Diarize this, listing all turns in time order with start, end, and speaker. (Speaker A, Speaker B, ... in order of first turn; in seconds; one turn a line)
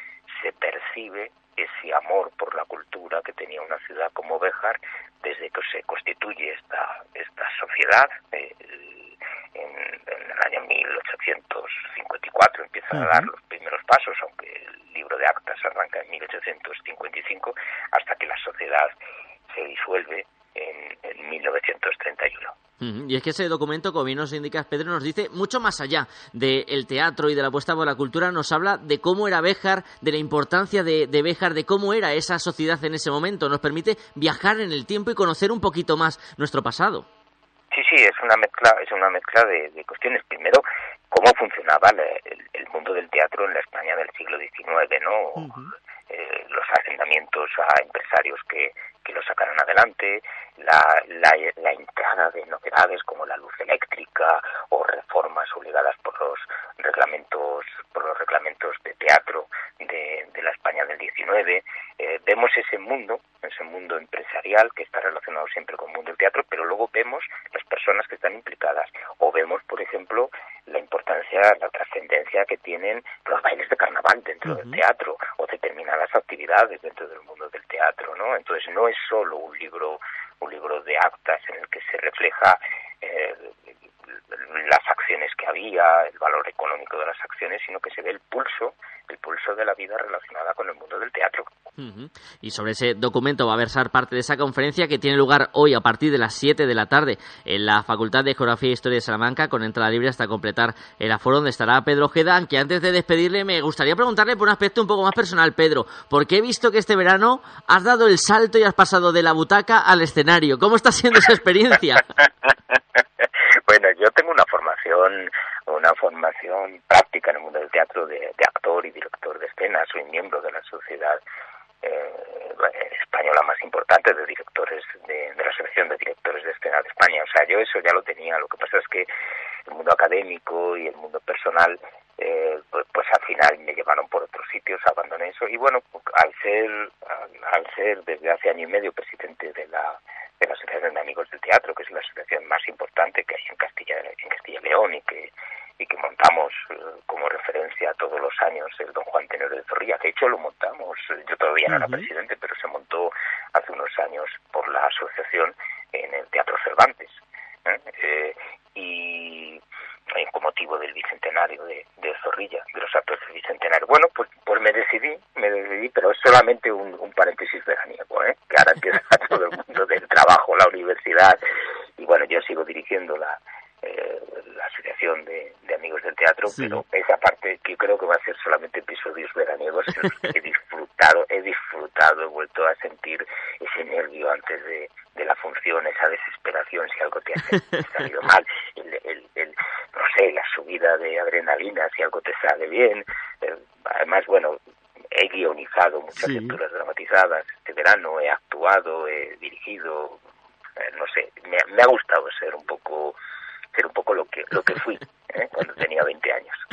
Speaker A: 0.3-18.9
Speaker B: 12.9-13.3
Speaker A: 19.5-22.6
Speaker B: 22.8-37.1
Speaker A: 37.7-83.8
Speaker B: 45.4-45.7
Speaker B: 74.5-74.8
Speaker A: 84.3-91.5
Speaker B: 91.8-112.0
Speaker A: 113.2-121.2
Speaker A: 121.8-129.1
Speaker A: 129.7-159.6
Speaker B: 151.7-152.1
Speaker A: 160.2-171.4
Speaker A: 172.0-194.6
Speaker B: 176.5-176.8
Speaker A: 195.1-200.2
Speaker B: 196.2-196.6
Speaker A: 200.8-203.2
Speaker A: 203.7-206.6